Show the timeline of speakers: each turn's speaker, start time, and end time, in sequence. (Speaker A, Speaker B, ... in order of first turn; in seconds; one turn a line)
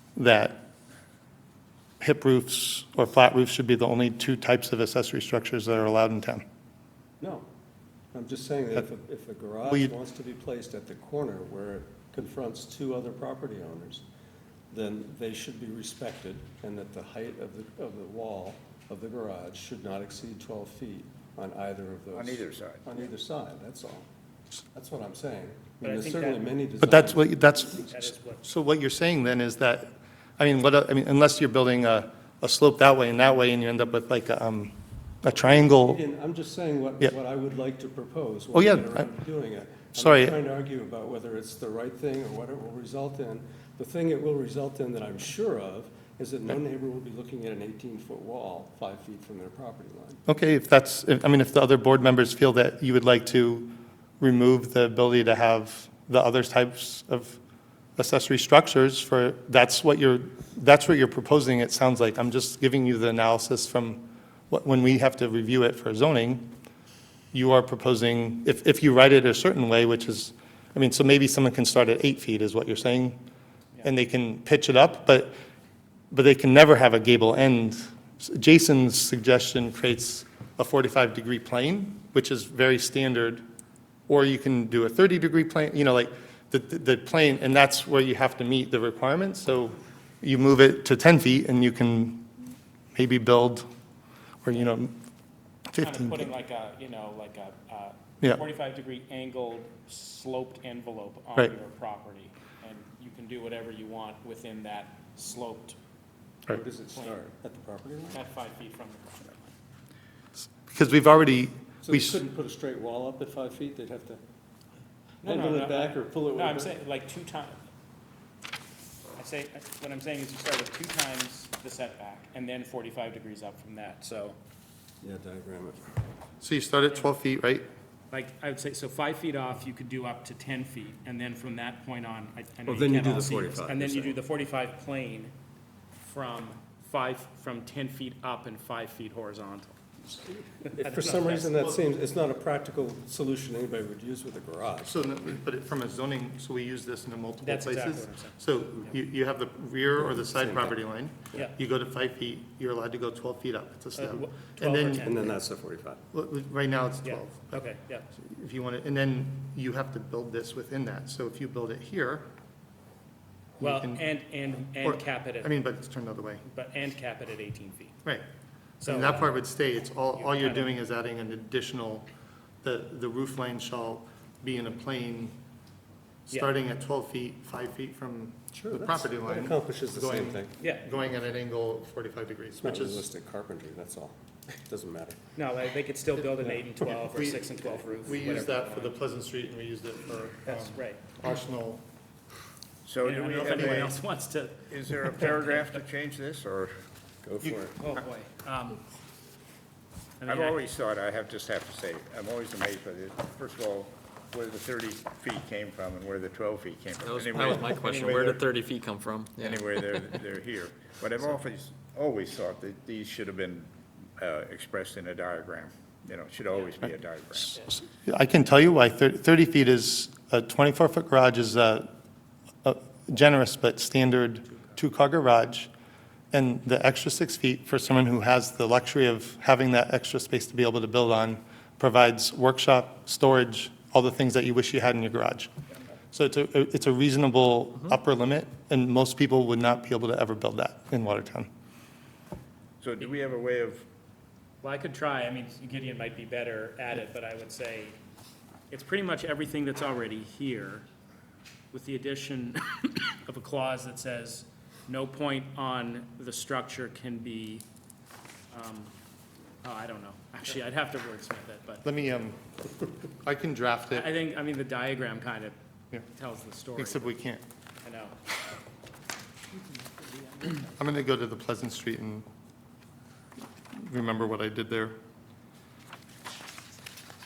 Speaker A: 0.2-0.7
Speaker A: 2.0-6.4
Speaker B: 7.2-7.5
Speaker B: 8.1-14.1
Speaker B: 14.7-24.1
Speaker C: 22.1-22.8
Speaker B: 24.7-27.3
Speaker D: 25.8-26.6
Speaker A: 26.8-36.0
Speaker D: 27.6-28.4
Speaker B: 35.4-50.2
Speaker A: 38.5-39.0
Speaker A: 40.0-40.4
Speaker A: 50.3-57.4
Speaker A: 58.0-66.5
Speaker A: 67.3-73.2
Speaker A: 73.8-75.4
Speaker A: 76.1-83.4
Speaker A: 84.1-92.3
Speaker A: 93.0-93.7
Speaker A: 94.4-95.0
Speaker A: 95.7-96.3
Speaker D: 95.8-105.8
Speaker B: 106.5-108.2
Speaker D: 108.1-109.5
Speaker A: 110.6-112.2
Speaker B: 111.8-114.2
Speaker D: 115.2-117.6
Speaker B: 115.2-116.8
Speaker D: 119.2-124.4
Speaker B: 125.0-125.9
Speaker A: 126.4-127.7
Speaker D: 128.1-135.3
Speaker B: 132.7-134.2
Speaker D: 136.0-141.7
Speaker B: 140.8-145.0
Speaker A: 144.9-155.1
Speaker D: 147.4-148.4
Speaker B: 150.0-150.8
Speaker D: 154.0-155.4
Speaker B: 155.0-156.0
Speaker A: 156.1-157.6
Speaker D: 157.0-158.1
Speaker A: 158.1-162.3
Speaker A: 163.6-164.1
Speaker D: 163.6-165.6
Speaker A: 164.8-166.4
Speaker D: 166.4-168.0
Speaker D: 168.8-169.3
Speaker A: 168.8-172.1
Speaker D: 170.2-170.7
Speaker A: 172.6-175.4
Speaker A: 176.3-183.1
Speaker B: 178.5-180.5
Speaker D: 180.6-180.8
Speaker B: 182.6-185.2
Speaker D: 185.4-189.0
Speaker A: 186.9-191.8
Speaker D: 190.5-191.0
Speaker C: 192.8-194.0
Speaker D: 193.0-195.8
Speaker A: 193.5-193.9
Speaker C: 194.7-196.7
Speaker B: 197.2-197.8
Speaker D: 197.8-198.8
Speaker D: 200.2-200.6
Speaker C: 200.3-208.5
Speaker E: 207.0-210.2
Speaker C: 209.4-217.6
Speaker A: 217.4-221.9
Speaker A: 222.6-225.7
Speaker A: 226.3-235.5
Speaker A: 236.1-241.5
Speaker C: 242.8-243.9
Speaker D: 244.6-248.0
Speaker D: 248.7-250.9
Speaker D: 251.7-257.6
Speaker D: 258.5-258.9
Speaker D: 259.6-261.9
Speaker A: 261.8-262.5
Speaker A: 263.2-264.1
Speaker D: 263.9-265.6
Speaker D: 266.1-267.2
Speaker A: 266.8-267.4
Speaker D: 267.8-268.1
Speaker A: 270.5-272.3
Speaker A: 273.7-275.0